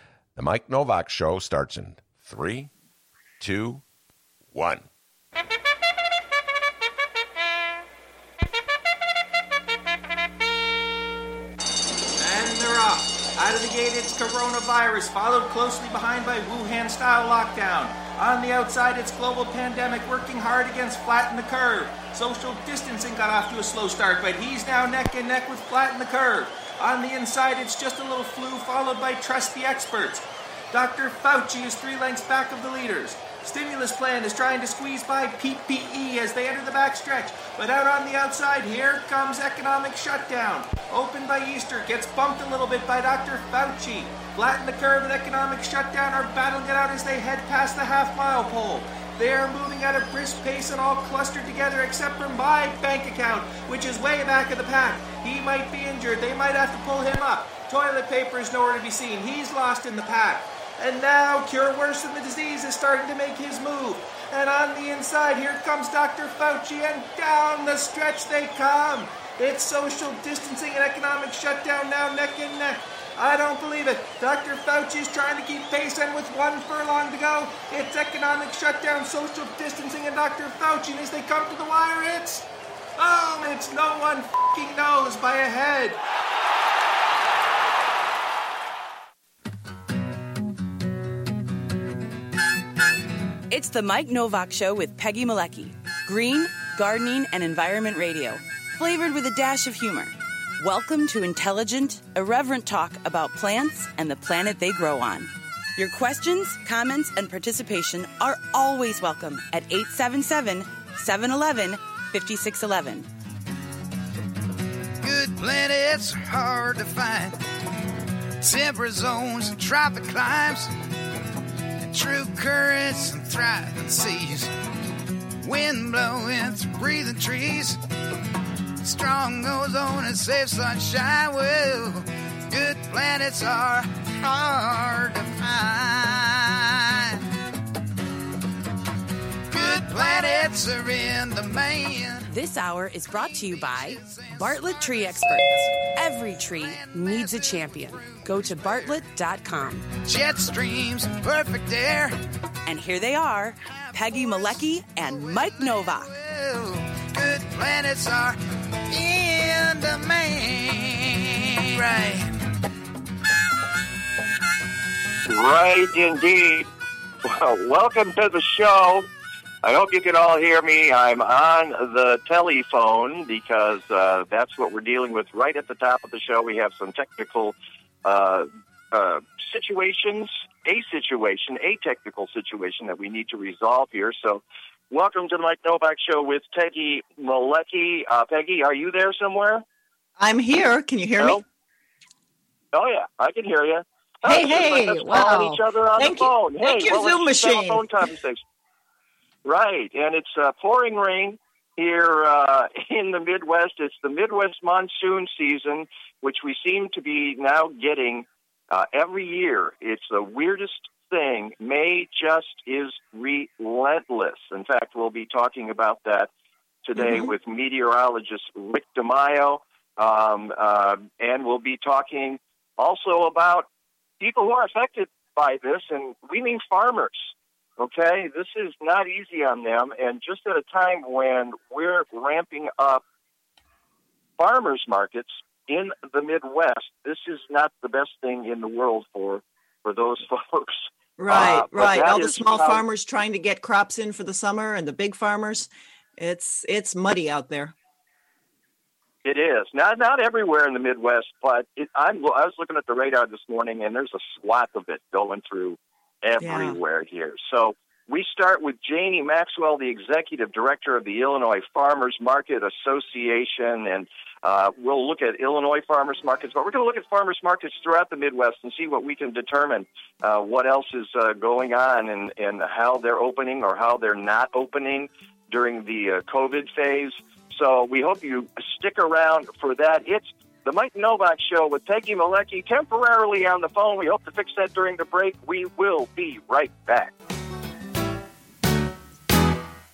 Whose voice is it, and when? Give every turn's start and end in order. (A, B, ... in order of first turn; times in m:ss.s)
0:00.4-0:02.7 A
0:03.4-0:03.8 A
0:04.5-0:04.9 A
0:12.2-1:22.4 B
1:23.0-1:26.0 B
1:33.5-1:53.1 C
1:55.0-1:57.4 D
1:58.4-2:00.7 D
2:01.9-2:04.5 D
2:05.4-2:07.8 D
2:08.8-2:17.2 D
2:19.5-2:22.4 D
2:22.3-2:29.9 C
2:23.1-2:29.1 D
2:29.9-2:32.2 D
2:32.6-2:36.1 C
2:33.6-2:42.3 D
2:45.2-2:46.7 E
2:47.2-2:49.0 E
2:49.6-3:09.6 E
3:10.2-3:11.4 F
3:12.7-3:18.4 E
3:14.2-3:17.9 F
3:19.4-3:36.3 E
3:36.8-3:43.7 E
3:37.0-3:37.3 F
3:44.2-3:53.0 E
3:54.4-4:02.8 E
4:01.2-4:07.7 F
4:09.2-4:47.1 E
4:16.4-4:16.8 F